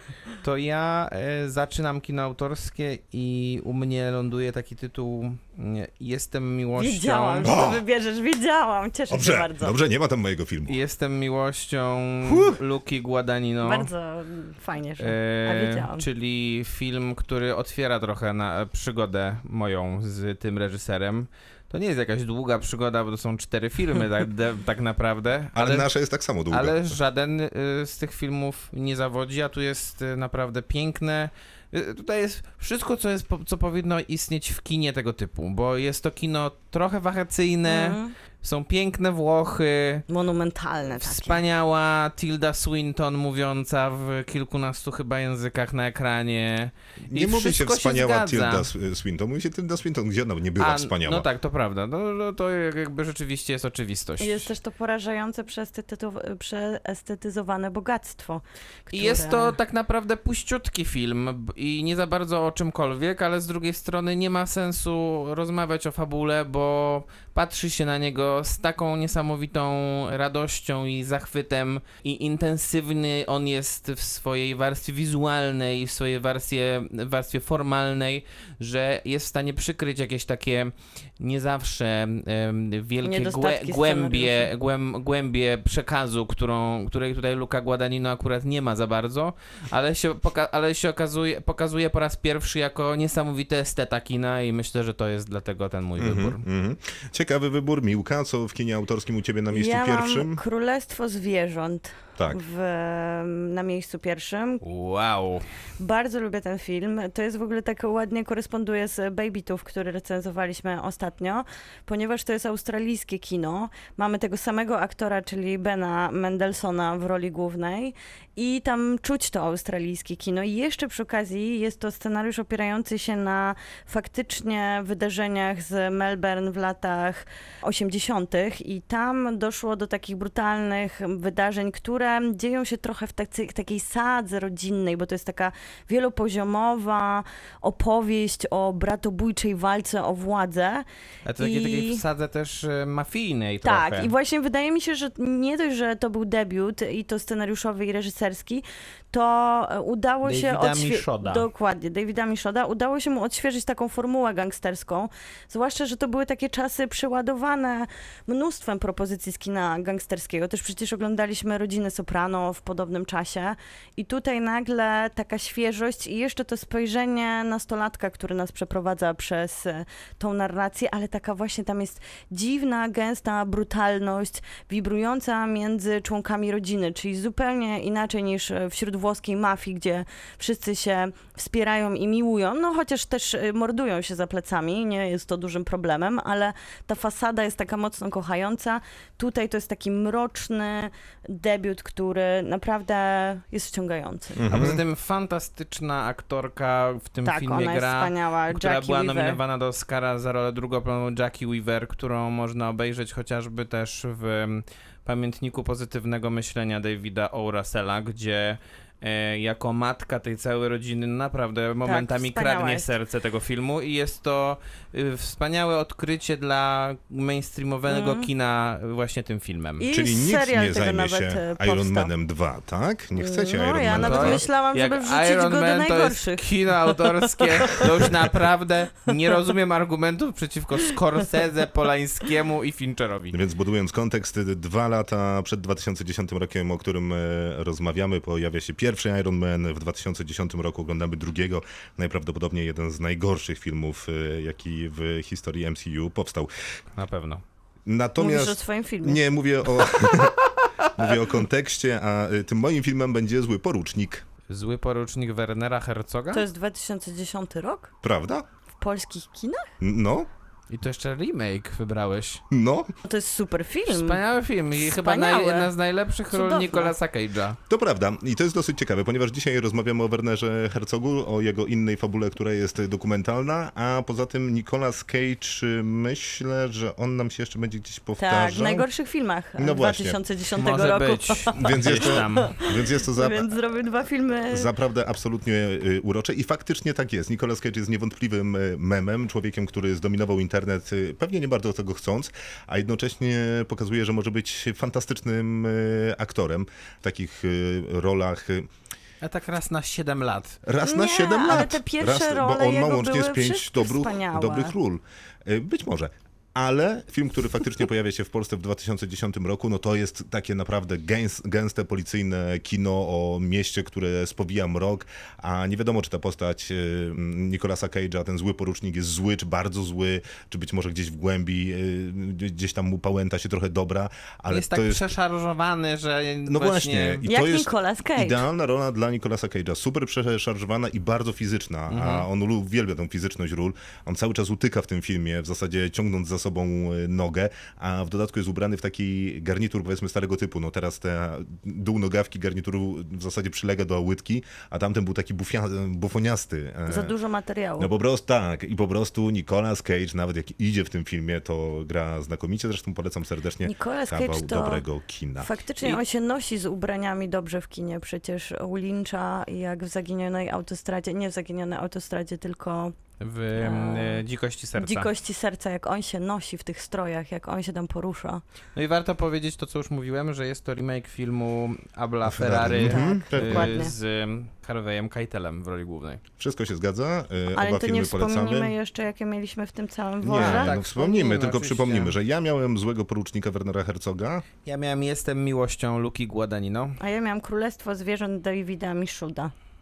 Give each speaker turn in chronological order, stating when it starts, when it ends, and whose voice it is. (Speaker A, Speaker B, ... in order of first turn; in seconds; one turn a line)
Speaker A: 0.3-7.5
Speaker B: 6.8-9.7
Speaker C: 7.4-7.8
Speaker C: 9.1-10.7
Speaker A: 10.7-13.9
Speaker C: 12.2-12.6
Speaker B: 13.6-16.0
Speaker A: 15.0-25.9
Speaker C: 25.5-26.8
Speaker A: 26.5-40.0
Speaker B: 37.7-38.1
Speaker B: 40.1-41.4
Speaker A: 41.0-48.7
Speaker C: 47.0-51.2
Speaker A: 50.6-54.5
Speaker B: 54.2-59.6
Speaker A: 58.9-96.4
Speaker B: 83.0-84.5
Speaker C: 96.0-100.4
Speaker B: 99.5-104.6
Speaker A: 104.6-105.4
Speaker B: 105.8-140.8
Speaker A: 141.2-144.1
Speaker B: 141.4-142.0
Speaker B: 143.6-194.5
Speaker A: 150.2-151.5
Speaker C: 194.4-194.8
Speaker A: 194.5-219.8
Speaker B: 197.2-199.4
Speaker B: 211.8-212.9
Speaker B: 217.9-218.3
Speaker B: 219.8-222.1
Speaker C: 219.9-224.4
Speaker B: 223.2-226.4
Speaker A: 223.9-233.4
Speaker B: 227.4-228.1
Speaker C: 233.3-246.5
Speaker A: 246.9-247.4
Speaker C: 247.8-250.4
Speaker B: 248.2-249.2
Speaker C: 250.9-254.2
Speaker A: 254.5-256.4
Speaker B: 256.3-257.9
Speaker C: 258.0-258.4
Speaker B: 258.8-259.7
Speaker C: 259.8-260.3
Speaker A: 260.7-262.4
Speaker C: 262.5-262.9
Speaker B: 263.0-264.2
Speaker A: 263.9-267.6
Speaker B: 264.8-265.7
Speaker B: 266.3-266.9
Speaker C: 267.7-278.9
Speaker B: 278.2-284.7
Speaker C: 279.6-280.2
Speaker A: 280.6-282.6
Speaker C: 281.5-283.5
Speaker C: 284.5-298.7
Speaker A: 299.2-300.6
Speaker C: 300.6-325.1
Speaker B: 300.8-304.7
Speaker A: 324.5-327.2
Speaker C: 326.5-347.1
Speaker B: 327.2-328.4
Speaker A: 331.9-332.3
Speaker B: 346.9-347.9
Speaker C: 347.8-355.5
Speaker B: 353.6-354.8
Speaker B: 355.4-362.9
Speaker A: 363.2-365.1
Speaker B: 363.6-364.2
Speaker B: 364.8-368.4
Speaker A: 368.7-376.2
Speaker C: 372.2-373.8
Speaker B: 372.8-373.9
Speaker C: 376.4-378.7
Speaker B: 377.5-380.7
Speaker C: 380.2-384.4
Speaker A: 380.3-382.1
Speaker A: 384.6-387.0
Speaker B: 387.0-389.5